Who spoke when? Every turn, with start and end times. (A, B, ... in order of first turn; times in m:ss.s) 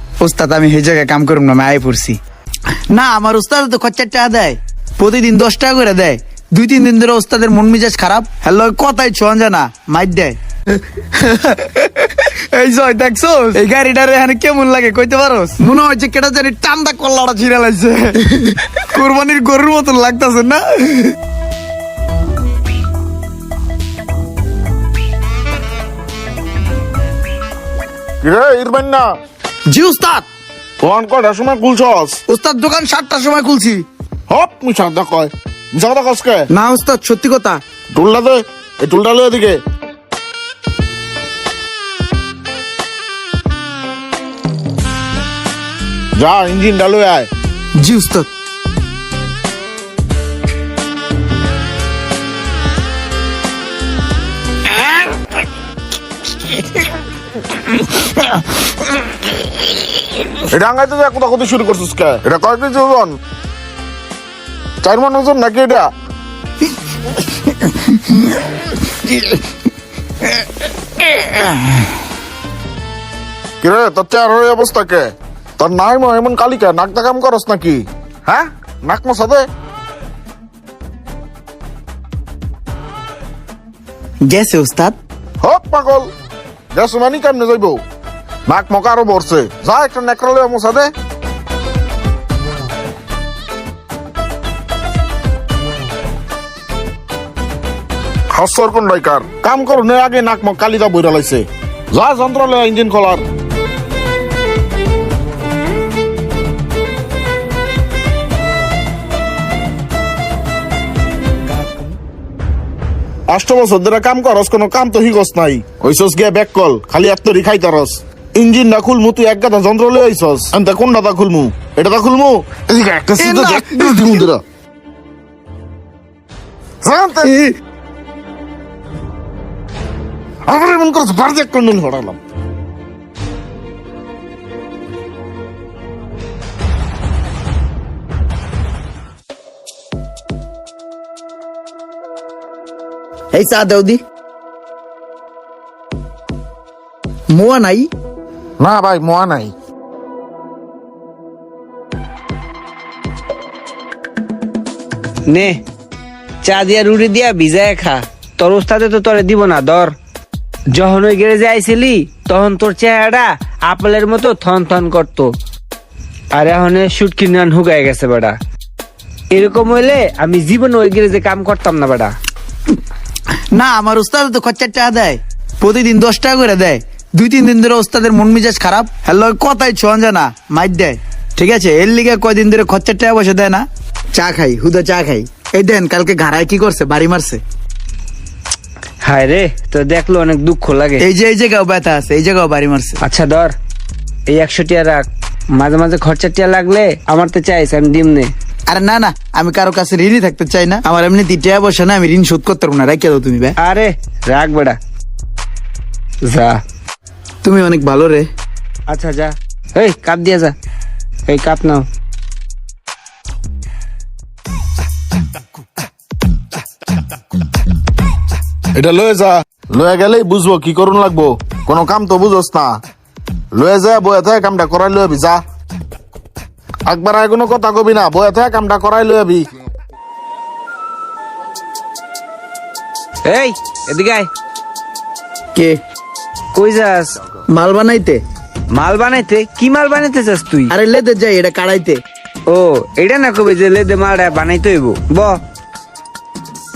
0:00.2-0:02.2 A
0:02.9-0:21.1 A
0:28.2-0:29.1 B
0:29.7-0:30.2 A
0:30.8-0:32.2 B
0:32.3-0:33.8 A
0:34.3-0:36.5 B
0:36.5-0:37.6 A
0:37.9-0:39.6 B
0:46.2-0:47.3 B
0:47.8-0:48.3 A
1:00.5-1:03.2 B
1:04.8-1:05.9 B
1:07.6-1:08.3 A
1:09.1-1:09.3 A
1:11.2-1:11.7 A
1:13.6-1:19.5 B
1:24.2-1:24.9 A
1:25.4-1:26.1 B
1:26.7-1:27.8 B
1:28.4-1:30.9 B
1:38.3-1:43.2 B
1:53.3-2:04.4 B
2:03.2-2:04.2 A
2:06.8-2:07.5 B
2:10.4-2:12.2 B
2:23.3-2:24.0 A
2:27.3-2:27.9 A
2:28.6-2:29.5 B
2:35.3-2:35.6 C
2:36.4-2:39.9 C
2:40.7-2:45.3 C
2:46.3-2:48.4 C
2:49.3-2:52.1 C
2:53.5-3:07.4 A
3:09.0-3:11.0 C
3:11.0-3:13.0 A
3:13.0-3:13.5 C
3:14.3-3:18.3 C
3:18.7-3:23.5 A
3:23.6-3:24.8 C
3:26.2-3:26.6 C
3:27.4-3:28.3 A
3:28.9-3:30.5 C
3:31.3-3:31.8 C
3:38.7-3:42.8 B
3:43.5-3:45.4 B
3:46.9-3:49.4 B
3:53.2-3:54.3 C
3:56.5-3:57.2 C
3:57.5-3:58.2 A
3:58.7-4:00.7 C
4:00.7-4:02.0 A
4:02.5-4:05.4 C